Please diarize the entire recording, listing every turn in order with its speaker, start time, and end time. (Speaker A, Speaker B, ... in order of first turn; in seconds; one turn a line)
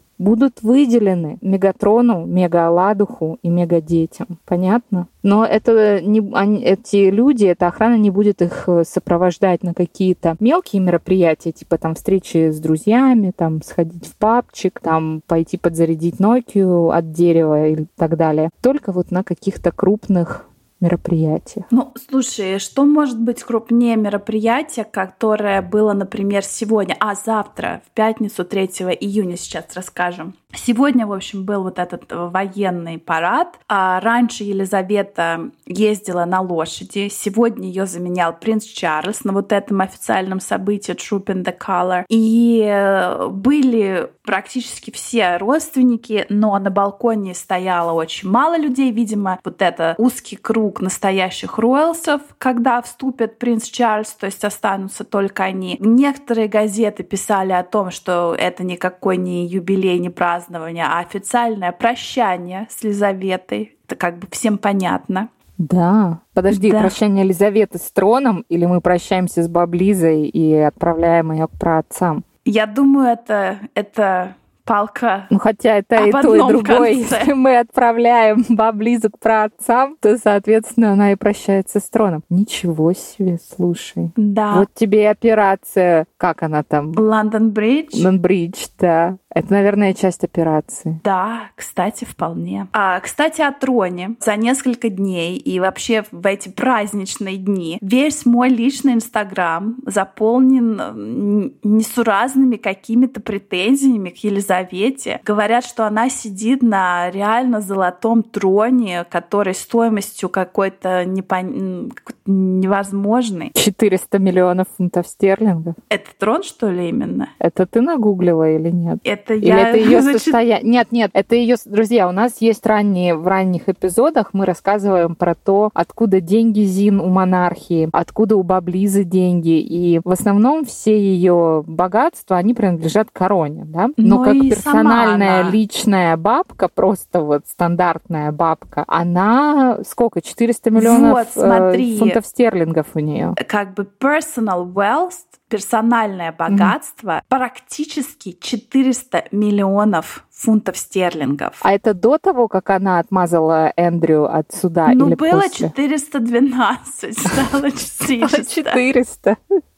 Speaker A: 0.2-21.6
Speaker B: 21.7-65.3
Speaker A: 65.6-72.2
Speaker B: 66.5-67.0
Speaker B: 72.4-75.3
Speaker A: 75.3-87.0
Speaker B: 76.0-77.3
Speaker B: 84.2-84.7
Speaker B: 86.9-88.1
Speaker A: 87.9-91.0
Speaker B: 91.0-113.5
Speaker A: 113.5-115.8
Speaker B: 115.9-117.3
Speaker A: 117.4-143.3
Speaker B: 119.0-120.4
Speaker B: 134.0-135.6
Speaker B: 140.7-142.2
Speaker B: 143.4-151.6
Speaker A: 146.5-146.7
Speaker A: 151.6-155.7
Speaker B: 154.8-158.8
Speaker A: 158.2-159.4